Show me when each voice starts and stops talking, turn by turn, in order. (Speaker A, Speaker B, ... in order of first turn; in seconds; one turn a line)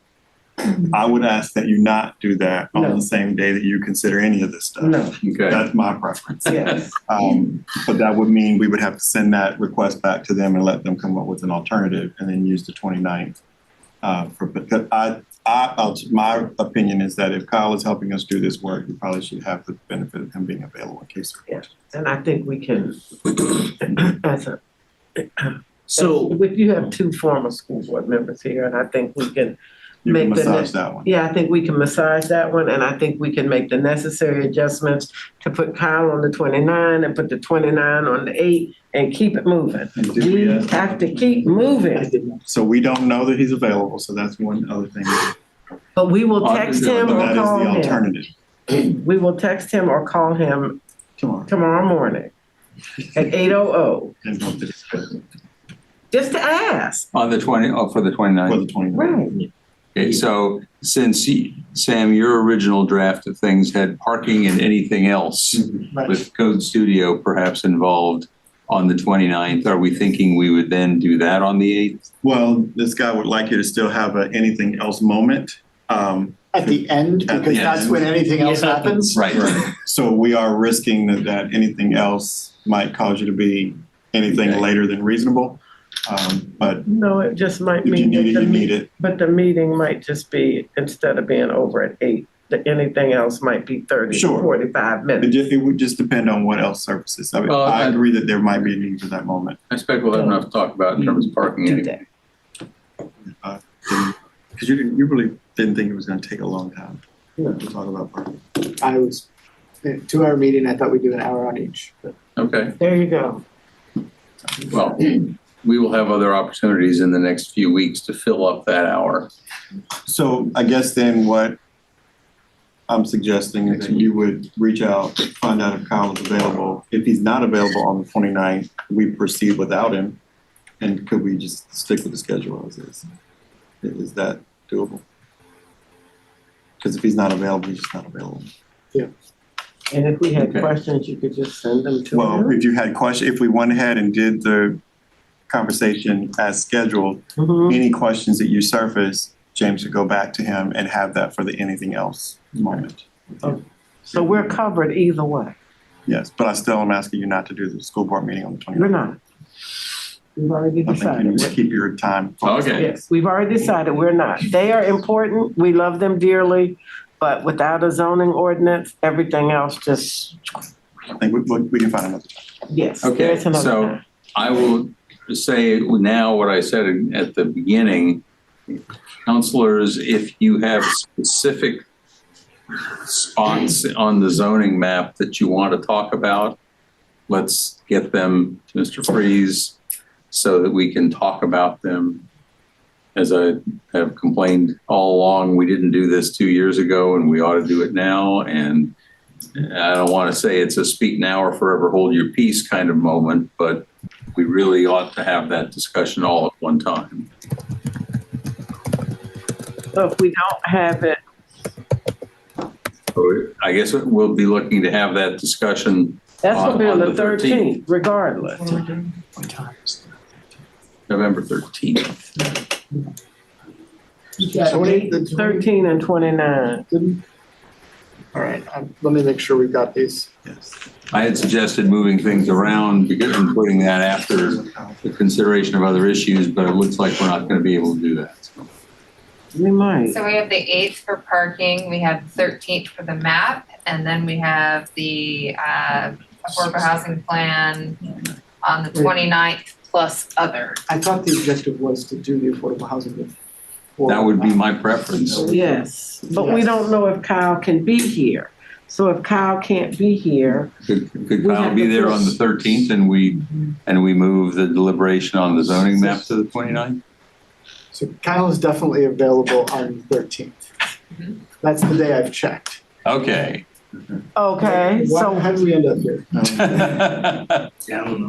Speaker A: 0.7-13.4
Speaker B: 2.8-3.0
Speaker B: 4.8-5.2
Speaker C: 5.2-5.7
Speaker B: 6.5-7.0
Speaker A: 14.0-21.7
Speaker B: 21.5-24.6
Speaker B: 25.2-42.1
Speaker A: 30.0-31.1
Speaker A: 40.0-40.8
Speaker D: 41.9-42.4
Speaker A: 42.5-45.3
Speaker B: 46.0-48.0
Speaker C: 46.4-47.5
Speaker A: 46.9-48.3
Speaker B: 48.7-50.8
Speaker A: 51.2-51.5
Speaker B: 51.5-52.3
Speaker B: 53.1-54.2
Speaker A: 54.2-55.2
Speaker B: 56.1-57.1
Speaker C: 57.1-58.6
Speaker A: 58.5-59.2
Speaker B: 58.9-59.5
Speaker C: 60.0-72.0
Speaker D: 65.9-66.2
Speaker A: 72.2-78.1
Speaker D: 76.5-79.2
Speaker C: 77.5-77.8
Speaker C: 79.1-79.6
Speaker A: 79.3-86.8
Speaker C: 84.3-84.6
Speaker B: 86.8-95.3
Speaker A: 87.8-88.9
Speaker A: 94.1-94.6
Speaker A: 95.2-99.6
Speaker C: 97.4-98.0
Speaker C: 99.7-102.0
Speaker A: 103.4-108.4
Speaker D: 108.8-109.3
Speaker D: 109.8-112.1
Speaker C: 112.3-112.8
Speaker B: 112.8-113.4
Speaker C: 114.7-119.3
Speaker A: 120.0-121.6
Speaker A: 122.9-130.2
Speaker A: 130.8-133.0
Speaker A: 133.8-135.1
Speaker A: 136.8-138.5
Speaker B: 139.9-142.6
Speaker C: 140.4-140.7
Speaker A: 142.1-144.8
Speaker A: 145.5-153.6
Speaker B: 147.4-147.8
Speaker B: 153.4-155.6
Speaker A: 156.1-159.0
Speaker B: 158.8-159.2
Speaker B: 160.4-161.5
Speaker A: 160.9-162.9
Speaker C: 162.4-162.9
Speaker B: 162.8-170.6
Speaker A: 171.2-172.3
Speaker B: 172.7-174.0
Speaker C: 173.0-181.8
Speaker C: 183.0-186.6
Speaker C: 187.3-189.8
Speaker C: 190.3-192.2
Speaker C: 193.2-198.9
Speaker C: 199.6-207.3
Speaker B: 209.9-211.2
Speaker C: 213.2-217.8
Speaker B: 216.4-218.8
Speaker D: 218.7-220.0
Speaker C: 221.1-222.2
Speaker B: 224.4-226.9
Speaker D: 224.5-225.7
Speaker D: 226.9-227.2
Speaker D: 228.3-230.3
Speaker A: 230.5-230.7
Speaker C: 231.1-238.7
Speaker A: 234.3-235.1
Speaker B: 239.5-240.2
Speaker E: 240.1-248.0
Speaker E: 248.7-250.8
Speaker D: 248.9-249.2
Speaker D: 250.9-253.3
Speaker D: 254.0-254.7
Speaker C: 254.1-255.4
Speaker D: 255.3-255.8
Speaker B: 255.4-260.7
Speaker D: 256.3-256.7
Speaker C: 260.9-267.0
Speaker B: 261.4-262.4
Speaker D: 267.9-270.7
Speaker D: 271.6-272.8
Speaker C: 273.0-273.6
Speaker B: 274.4-275.5
Speaker D: 274.6-276.6
Speaker A: 276.4-276.8
Speaker C: 276.4-277.7